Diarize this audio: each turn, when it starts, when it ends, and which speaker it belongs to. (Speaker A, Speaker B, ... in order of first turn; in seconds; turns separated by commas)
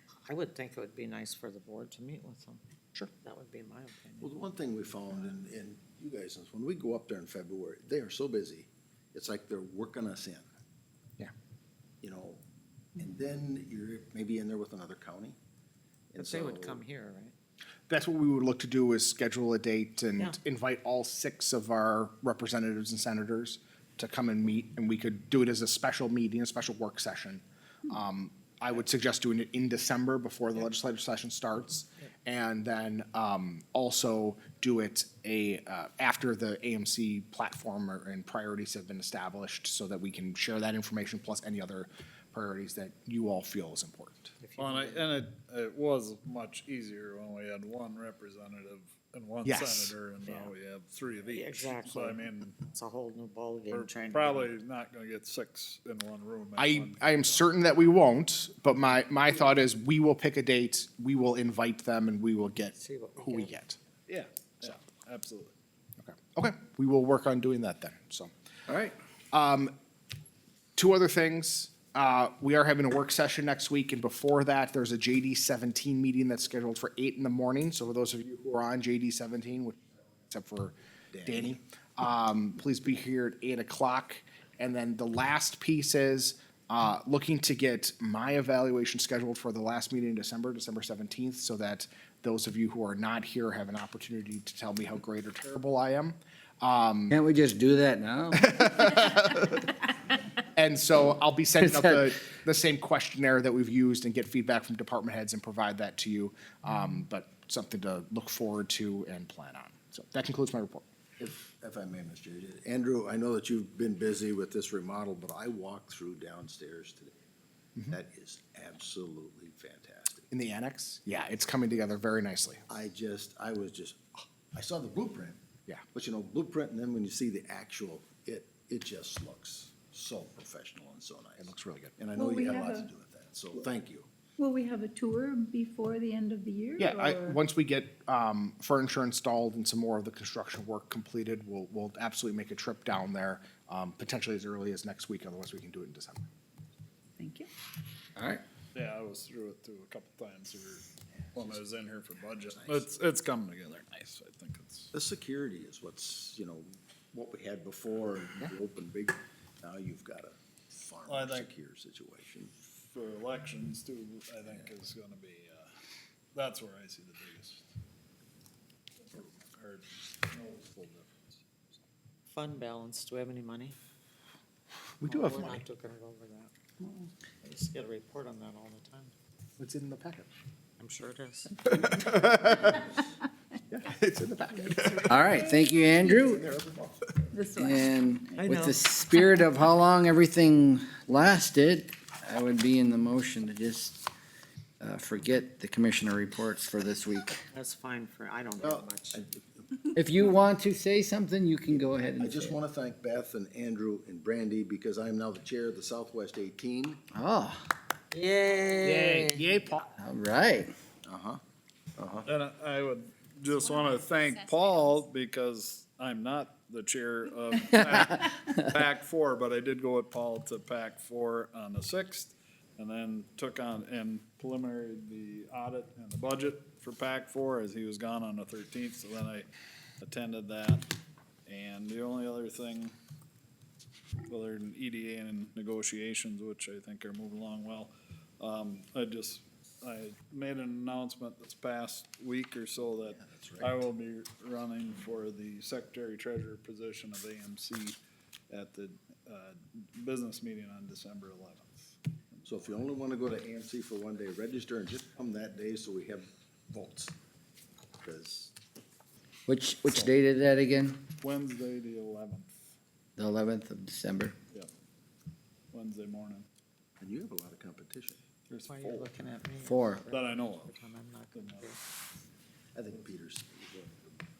Speaker A: 0.2-2.6, Speaker A: 3.2-4.3, Speaker B: 4.2-10.4, Speaker B: 12.0-12.4, Speaker B: 13.0-15.4, Speaker B: 16.1-16.8, Speaker A: 16.2-17.3, Speaker C: 17.9-44.3, Speaker A: 44.4-45.1, Speaker D: 44.6-52.4, Speaker C: 49.4-49.9, Speaker A: 50.2-50.5, Speaker A: 51.3-54.5, Speaker D: 53.7-57.2, Speaker C: 56.6-63.8, Speaker A: 62.8-63.5, Speaker D: 64.1-65.5, Speaker C: 66.0-68.3, Speaker E: 68.7-69.0, Speaker C: 69.3-69.7, Speaker C: 70.8-80.7, Speaker B: 81.1-81.5, Speaker C: 81.2-97.1, Speaker E: 97.1-98.5, Speaker C: 98.4-99.6, Speaker C: 100.5-110.8, Speaker E: 101.6-102.0, Speaker B: 111.2-117.2, Speaker B: 117.9-120.2, Speaker C: 120.3-122.6, Speaker B: 122.7-125.4, Speaker B: 125.9-134.1, Speaker C: 131.4-131.9, Speaker F: 132.1-132.9, Speaker F: 134.4-137.4, Speaker C: 136.8-146.2, Speaker F: 147.2-147.5, Speaker E: 148.2-148.4, Speaker D: 148.7-154.9, Speaker B: 152.6-152.8, Speaker B: 154.9-162.5, Speaker D: 161.0-161.5, Speaker D: 162.9-165.7, Speaker D: 166.3-167.6, Speaker D: 169.1-171.7, Speaker A: 172.3-173.8, Speaker C: 175.0-175.6, Speaker A: 175.0-176.5, Speaker A: 177.4-179.1, Speaker C: 179.6-180.3, Speaker A: 180.8-181.5, Speaker C: 181.5-183.0, Speaker C: 183.7-185.2, Speaker E: 185.1-186.5, Speaker C: 186.1-187.0, Speaker F: 187.3-187.8, Speaker E: 187.6-194.0, Speaker A: 188.4-188.8, Speaker E: 194.8-197.4, Speaker A: 197.5-199.2, Speaker B: 198.6-199.7, Speaker E: 199.9-202.6, Speaker B: 202.2-207.0, Speaker E: 207.1-207.7, Speaker A: 208.1-209.4, Speaker C: 208.8-209.8, Speaker E: 210.0-210.7, Speaker B: 211.0-211.4, Speaker B: 212.0-212.3, Speaker D: 212.2-229.5, Speaker D: 230.0-230.9, Speaker D: 231.4-232.9, Speaker D: 234.3-248.0, Speaker B: 243.0-243.8, Speaker D: 248.5-252.8, Speaker B: 252.4-257.1, Speaker B: 258.0-258.5, Speaker E: 259.5-261.0, Speaker D: 259.9-260.1, Speaker D: 261.2-262.5, Speaker E: 263.2-264.4, Speaker D: 265.7-266.5, Speaker B: 267.0-268.2, Speaker D: 268.5-269.1, Speaker A: 268.7-271.8, Speaker E: 269.6-270.0, Speaker D: 270.1-270.8, Speaker D: 271.3-271.7, Speaker B: 272.7-274.2